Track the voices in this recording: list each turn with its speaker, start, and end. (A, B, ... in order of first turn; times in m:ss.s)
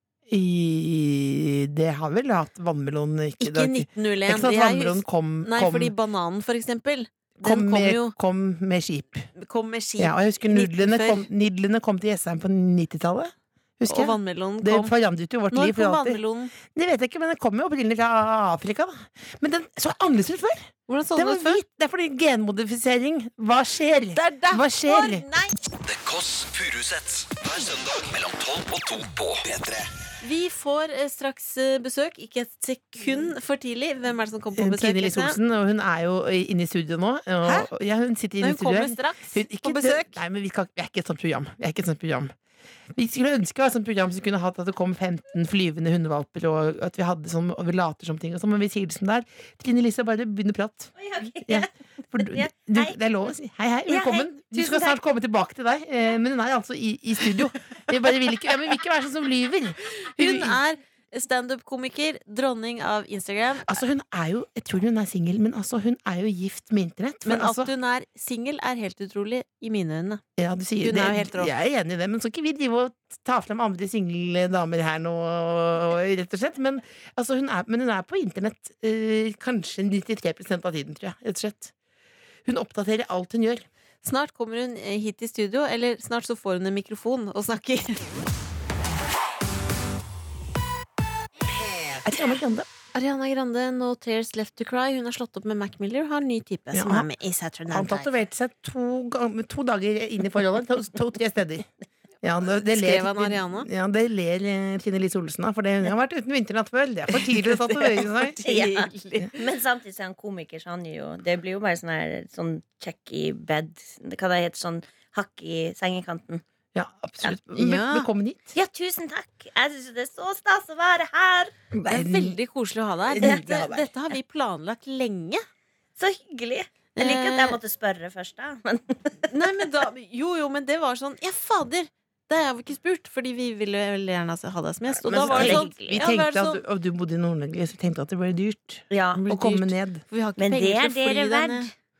0:00.3-0:05.9 A
0:03.4-0:08.1 B
0:07.4-0:09.3 A
0:09.4-0:11.3 B
0:10.0-0:25.2 A
0:13.9-0:14.9 B
0:15.5-0:16.5 B
0:20.9-0:21.6 B
0:24.1-0:25.5 B
0:25.8-0:29.9 C
0:30.2-0:35.4 B
0:34.5-0:42.3 A
0:37.4-0:37.7 B
0:38.4-0:40.2 B
0:42.9-1:00.6 A
0:51.0-0:52.9 D
0:53.9-0:55.0 D
1:00.1-1:03.8 B
1:03.6-1:07.7 A
1:07.2-1:10.2 B
1:10.4-1:21.7 A
1:10.8-1:11.5 B
1:22.4-1:23.6 A
1:24.0-1:28.1 B
1:32.0-1:32.7 A
1:32.9-1:38.1 B
1:36.7-1:37.1 A
1:37.7-1:41.7 A
1:42.2-1:48.4 A
1:42.7-1:43.7 B
1:47.1-1:49.4 B
1:48.4-1:56.4 D
1:56.7-1:58.5 A
1:57.2-1:58.1 B
1:58.5-2:01.5 D
2:01.7-2:02.4 A
2:01.9-2:05.4 B
2:03.1-2:03.9 A
2:06.0-2:09.2 D
2:07.0-2:07.6 B
2:09.3-2:16.6 B
2:15.0-2:20.0 A
2:15.0-2:16.0 D
2:18.9-2:19.3 D
2:19.2-2:21.7 B
2:20.4-2:21.7 D